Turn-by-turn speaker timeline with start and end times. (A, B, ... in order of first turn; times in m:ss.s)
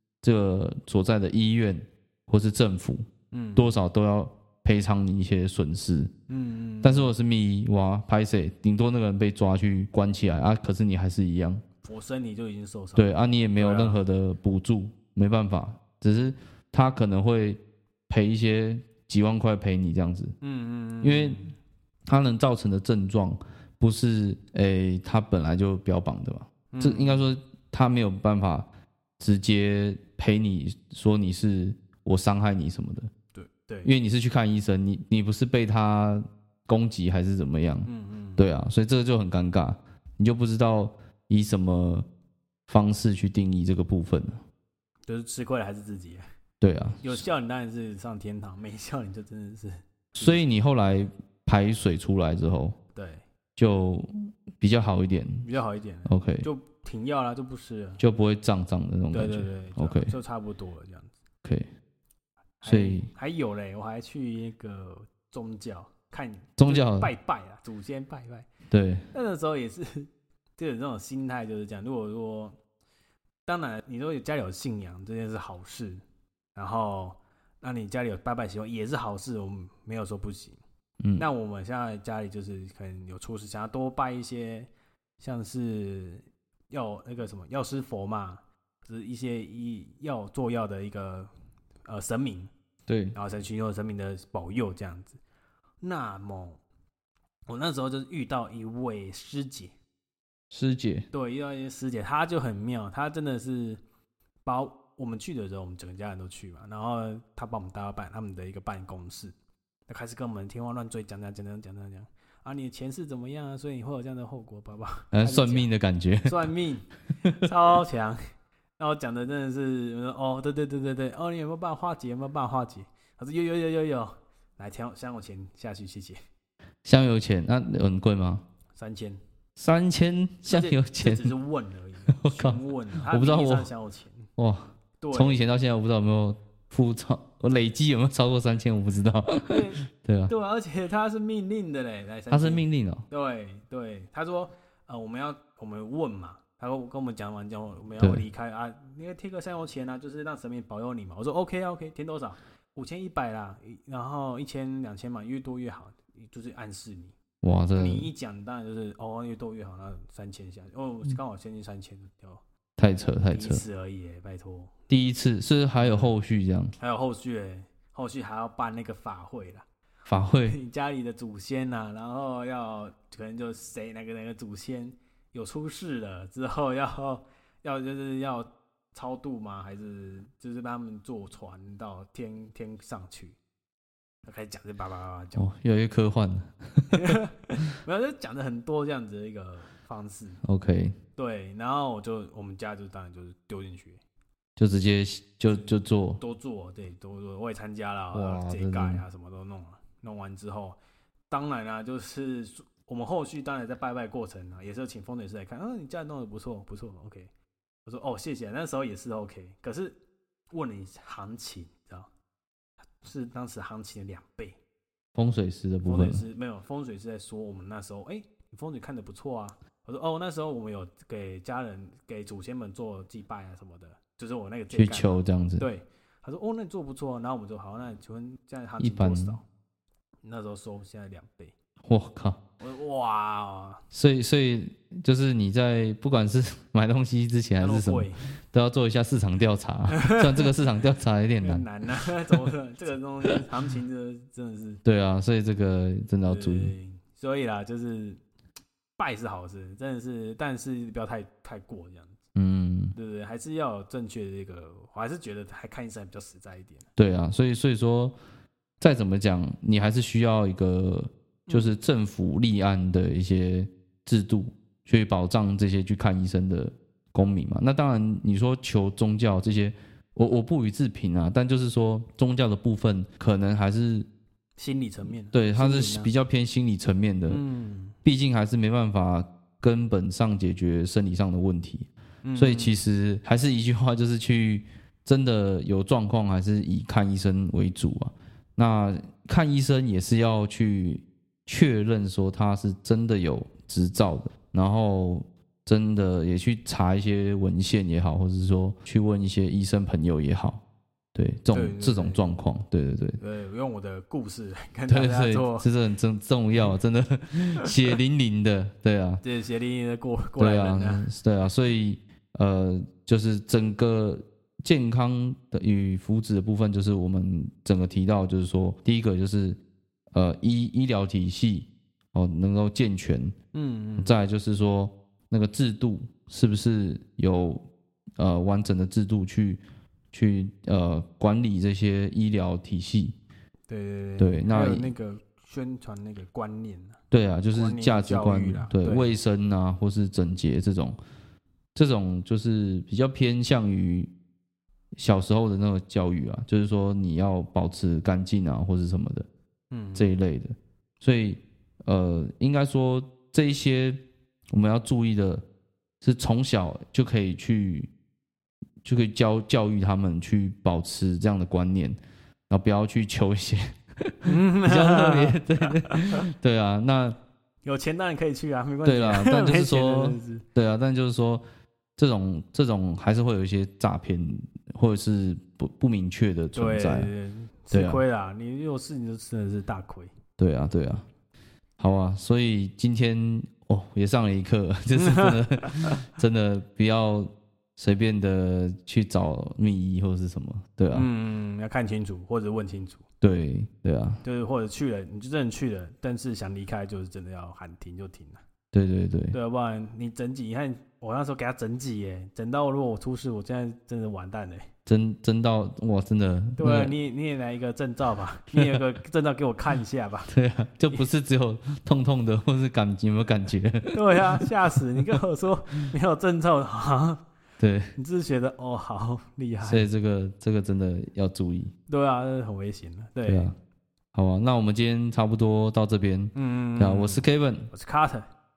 0:00.2-0:03.0 A
0:03.3-0:03.8 B
0:03.6-0:06.1 A
0:06.3-0:07.1 B
0:06.8-0:11.6 A
0:11.8-0:14.0 B
0:12.9-0:20.3 A
0:20.4-0:21.5 B
0:21.0-0:21.4 A
0:22.1-0:28.7 A
0:26.7-0:27.3 B
0:29.2-0:33.1 A
0:33.3-0:33.9 B
0:33.8-0:42.0 A
0:37.8-0:38.4 B
0:42.7-0:44.4 A
0:45.1-0:46.2 B
0:46.6-0:47.2 A
0:47.0-0:50.4 B
0:50.1-0:52.8 A
0:52.9-0:53.2 B
0:53.6-0:55.4 A
0:55.4-0:58.0 B
0:56.0-0:56.5 A
0:58.0-1:00.1 A
0:59.1-1:01.1 B
1:02.6-1:08.5 B
1:02.6-1:03.1 A
1:06.6-1:07.1 A
1:08.7-1:09.0 A
1:09.1-1:12.6 B
1:13.4-1:16.0 B
1:16.5-1:20.6 B
1:21.0-1:21.2 A
1:21.2-1:31.3 B
1:31.8-1:32.5 B
1:32.9-1:33.1 A
1:33.1-1:35.2 B
1:35.8-1:36.6 B
1:37.5-1:39.7 B
1:40.5-1:41.1 A
1:41.1-1:43.8 B
1:44.4-1:49.3 B
1:49.9-1:55.7 B
1:55.1-1:56.5 A
1:56.2-1:58.2 B
1:58.8-2:06.2 B
2:06.8-2:08.4 A
2:08.7-2:09.2 B
2:09.6-2:11.3 A
2:10.4-2:14.3 B
2:12.1-2:13.7 A
2:14.4-2:20.3 A
2:15.0-2:15.5 B
2:19.5-2:37.2 B
2:22.3-2:23.0 A
2:28.0-2:28.2 A
2:37.4-2:38.1 A
2:37.7-2:42.4 B
2:42.8-2:43.6 A
2:43.3-2:44.7 B
2:44.9-2:46.7 A
2:45.8-2:46.1 B
2:46.8-2:49.6 B
2:50.1-2:50.6 A
2:50.4-3:03.4 B
3:04.2-3:05.5 B
3:05.3-3:07.0 A
3:06.9-3:10.4 B
3:10.4-3:10.9 A
3:11.2-3:14.0 B
3:14.6-3:16.2 A
3:15.5-3:20.8 B
3:18.1-3:19.0 A
3:21.3-3:27.3 B
3:27.8-3:30.0 B
3:30.5-3:32.1 B
3:33.0-3:34.6 B
3:35.1-3:36.2 A
3:35.8-3:49.4 B
3:44.7-3:45.6 A
3:48.8-3:49.4 A
3:50.2-3:51.5 B
3:51.9-3:52.4 A
3:52.6-3:53.8 B
3:53.9-4:01.6 A
3:57.6-3:58.2 B
3:59.9-4:00.2 B
4:01.4-4:04.8 B
4:04.8-4:06.7 A
4:06.3-4:08.2 B
4:09.0-4:12.2 B
4:12.3-4:12.9 A
4:13.0-4:16.9 B
4:17.0-4:18.1 A
4:18.8-4:34.1 A
4:21.5-4:21.7 B
4:34.6-4:36.1 B
4:35.3-4:37.4 A
4:37.3-4:38.0 B
4:38.0-5:00.6 A
4:42.2-4:42.8 B
5:01.1-5:03.2 A
5:01.5-5:02.3 B
5:03.2-5:05.7 B
5:04.9-5:09.2 A
5:09.2-5:11.1 B
5:10.4-5:19.6 A
5:20.1-5:23.3 A
5:23.5-5:24.1 B
5:24.0-5:27.6 A
5:28.2-5:33.2 A
5:33.7-5:37.0 B
5:34.2-5:34.9 A
5:37.1-5:41.0 A
5:37.5-5:39.2 B
5:41.7-5:44.1 A
5:45.0-5:49.3 A
5:49.7-5:50.1 B
5:50.0-5:54.0 A
5:54.5-5:55.4 A
5:56.0-5:57.9 A
5:58.8-6:02.0 A
6:02.5-6:07.2 A
6:04.2-6:06.0 B
6:07.6-6:10.4 B
6:08.8-6:11.4 A
6:12.0-6:17.1 A
6:16.5-6:20.1 B
6:17.7-6:18.0 A
6:20.4-6:21.0 A
6:21.8-6:31.1 A
6:25.0-6:25.9 B
6:30.9-6:33.0 B
6:33.2-6:34.2 A
6:34.2-6:38.4 B
6:38.7-6:39.4 A
6:39.3-6:44.7 B
6:44.8-6:46.9 A
6:46.6-6:50.3 B
6:50.3-6:54.4 A
6:53.9-6:57.2 B
6:57.6-6:57.9 A
6:58.0-6:59.9 B
6:59.6-7:01.7 A
7:01.9-7:03.5 B
7:03.2-7:03.5 A
7:04.1-7:07.7 A
7:06.3-7:08.3 B